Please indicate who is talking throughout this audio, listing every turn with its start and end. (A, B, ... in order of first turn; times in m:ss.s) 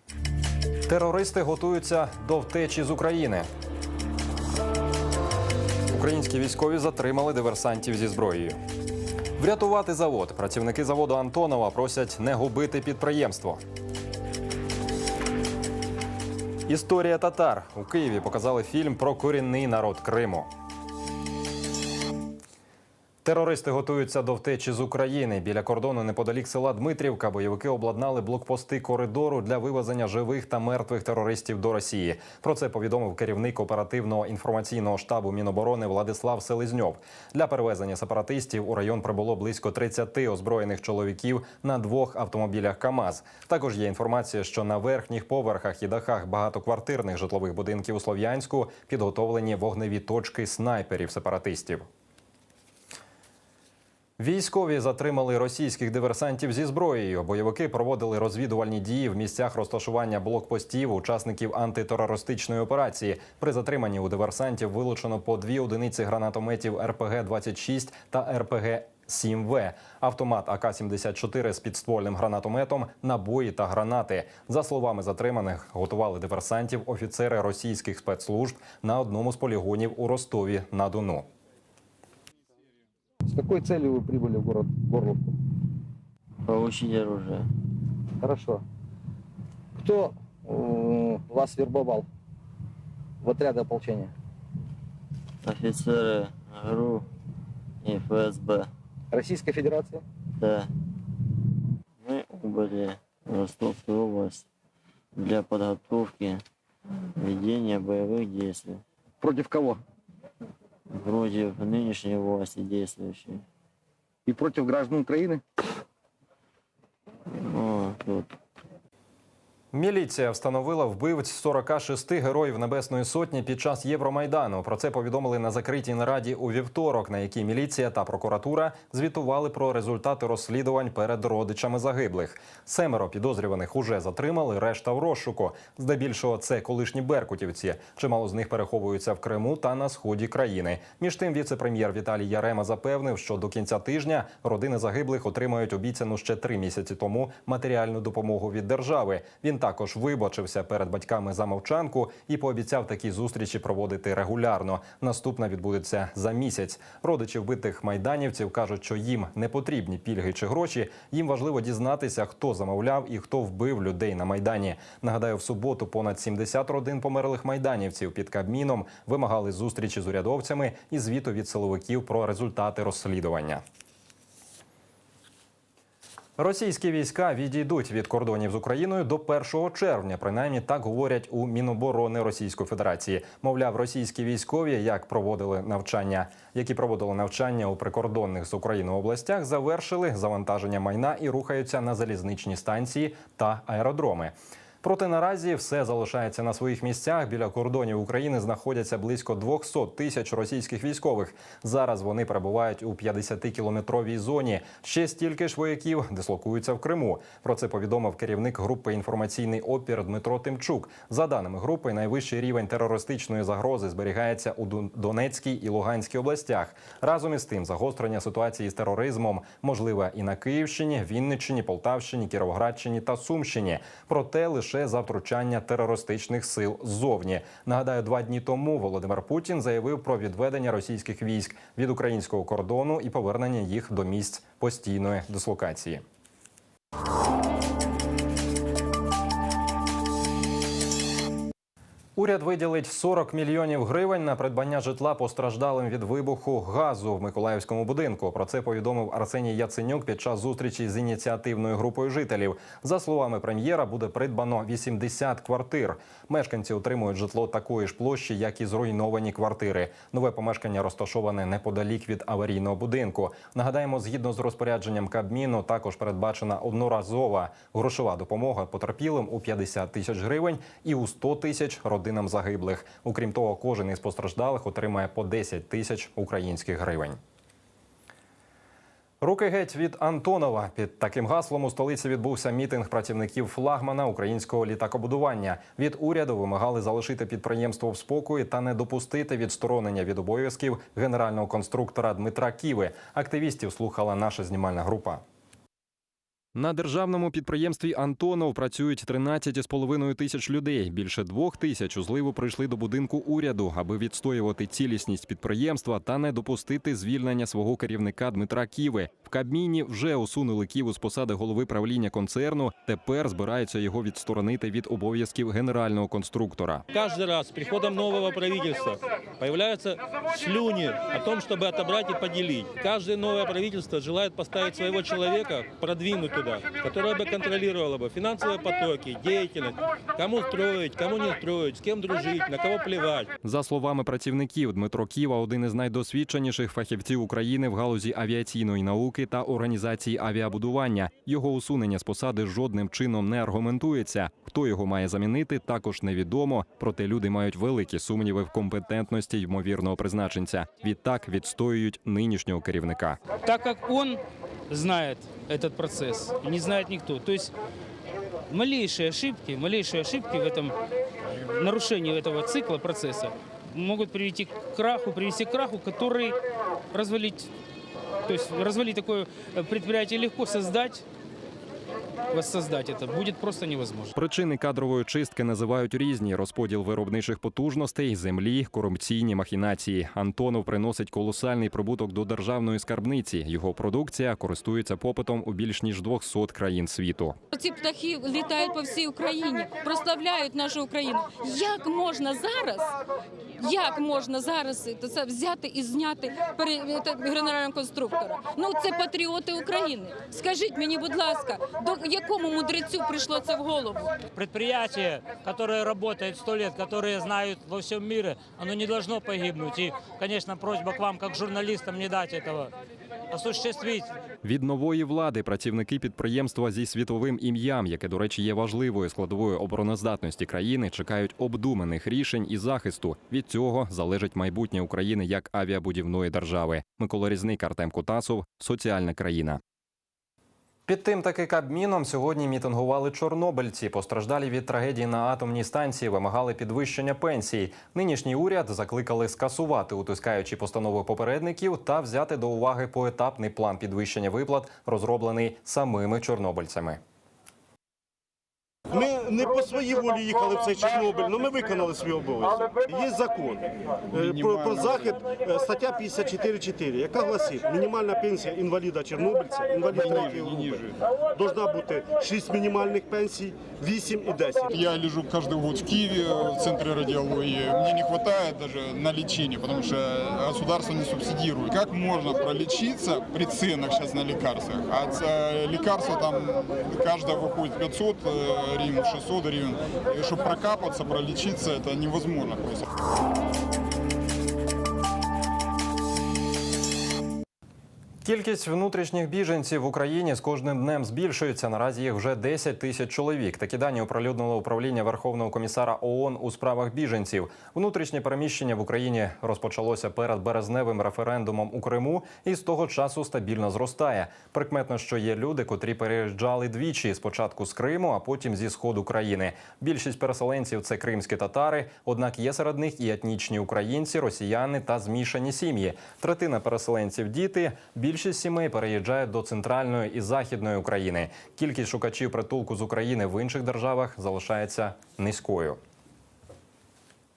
0:00.9-0:03.5 A
0:05.9-0:08.6 A
0:09.4-0:13.6 A
0:16.7-0:20.5 A
0:23.2-0:51.9 A
0:54.2-1:21.2 A
1:23.3-1:25.3 B
1:26.5-1:27.5 C
1:28.2-1:28.6 B
1:29.8-1:32.1 B
1:33.2-1:34.1 B
1:35.4-1:37.1 C
1:37.8-1:38.7 C
1:39.1-1:40.0 B
1:40.4-1:40.7 C
1:42.0-1:44.4 C
1:45.2-1:46.4 C
1:47.2-1:48.8 C
1:49.2-1:49.8 B
1:50.9-1:53.4 C
1:54.3-1:55.4 B
1:57.4-1:58.3 C
1:59.7-2:53.6 A
2:56.4-3:56.0 A
4:02.2-4:37.2 A
4:39.2-4:55.2 A
4:56.6-5:16.8 A
5:16.9-5:33.3 D
5:33.4-5:53.2 A
5:53.5-5:57.5 E
5:58.5-6:00.8 E
6:01.5-6:06.4 E
6:06.9-6:07.5 E
6:08.3-6:11.0 E
6:12.3-6:14.1 E
6:14.2-6:27.4 A
6:27.5-6:32.9 F
6:33.6-6:44.2 F
6:44.3-6:52.7 G
6:53.3-6:54.1 G
6:54.4-7:09.6 A
7:10.9-7:27.0 A
7:28.9-7:44.8 H
7:34.1-7:35.0 I
7:39.9-7:40.9 I
7:44.7-8:02.9 I
8:08.2-8:45.8 A